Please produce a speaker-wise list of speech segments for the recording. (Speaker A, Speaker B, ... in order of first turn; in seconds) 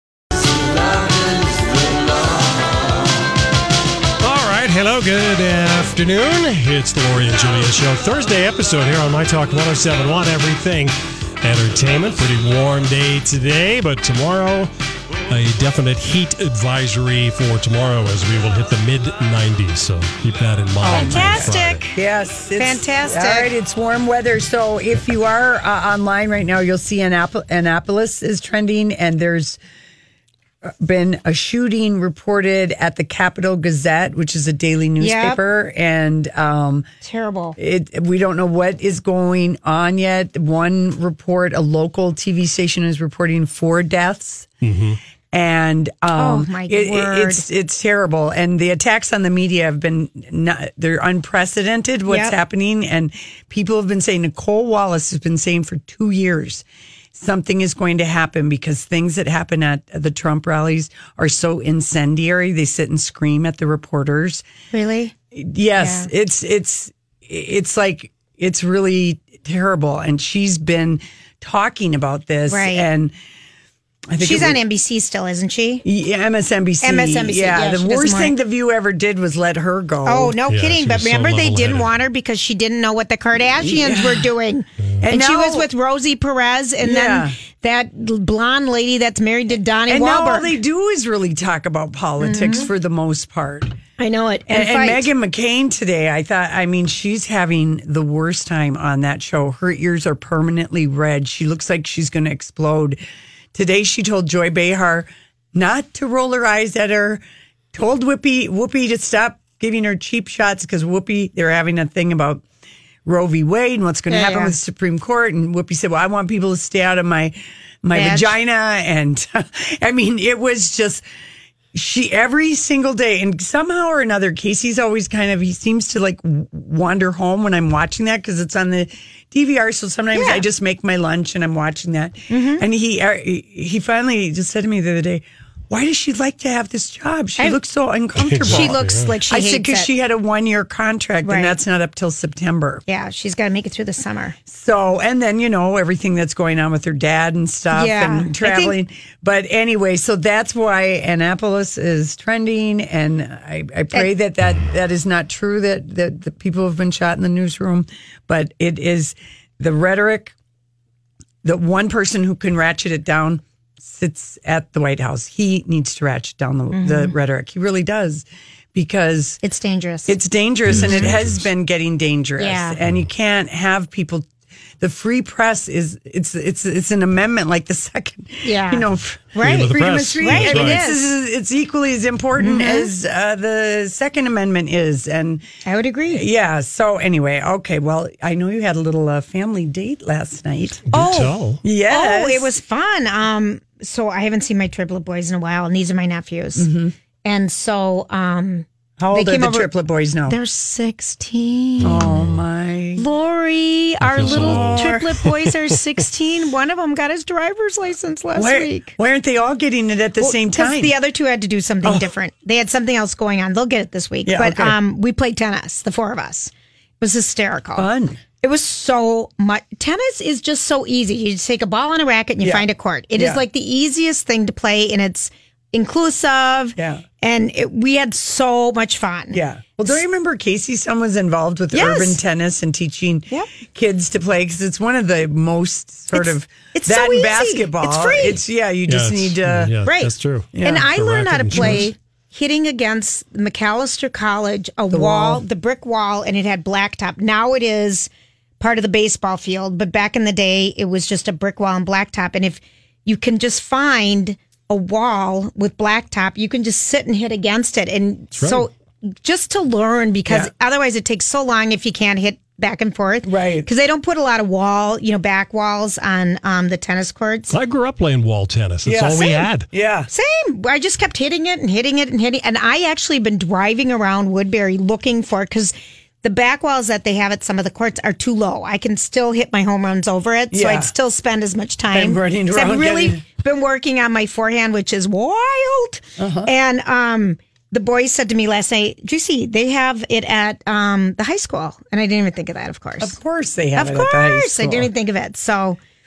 Speaker A: 4.2-14.7, 15.3-21.9, 44.6-45.0, 80.5-81.9, 138.2-139.2, 170.7-171.4, 179.4-180.9, 190.9-191.6, 201.8-202.4, 204.0-205.7, 238.9-241.9, 258.4-258.7, 267.5-269.7
Speaker B: 20.8-29.6, 30.6-36.9, 37.6-44.5, 45.3-56.6, 57.1-64.4, 65.3-73.1, 74.1-74.6, 75.8-80.4, 83.7-84.3, 85.0-85.7, 86.8-87.4, 89.9-93.8, 94.5-103.0, 103.5-107.2, 107.7-112.4, 113.1-121.0, 121.7-138.8, 139.3-142.8, 144.5-160.3, 161.4-169.4, 170.1-174.3, 174.8-185.4, 186.1-190.9, 191.6-192.5, 196.6-196.9, 199.0-200.4, 201.8-203.1, 204.2-205.1, 208.3-210.9, 214.3-214.8, 217.8-218.2, 222.4-222.7, 223.2-223.4, 226.8-227.0, 229.3-239.7, 240.5-240.9, 241.5-241.8, 244.9-245.4, 263.2-263.7, 268.8-270.1, 280.5-280.9, 281.9-283.2, 286.2-286.5, 293.0-294.9
Speaker C: 20.8-21.9, 22.6-23.5, 35.0-35.4, 37.0-37.6, 46.2-47.4, 52.1-52.4, 64.7-65.1, 65.8-66.1, 72.5-72.9, 74.2-75.8, 76.8-78.4, 80.0-90.5, 92.2-92.7, 94.0-95.1, 114.1-114.5, 117.9-118.4, 130.1-130.4, 132.3-132.6, 138.4-139.9, 141.2-141.6, 142.9-144.4, 147.7-148.8, 166.7-167.2, 169.4-171.1, 172.4-172.8, 178.4-181.0, 182.4-182.9, 185.7-186.2, 190.9-196.7, 197.2-199.7, 200.3-202.1, 203.0-208.9, 210.2-217.9, 218.4-229.9, 231.7-232.2, 236.1-238.4, 239.8-267.6, 270.1-293.2, 293.8-295.8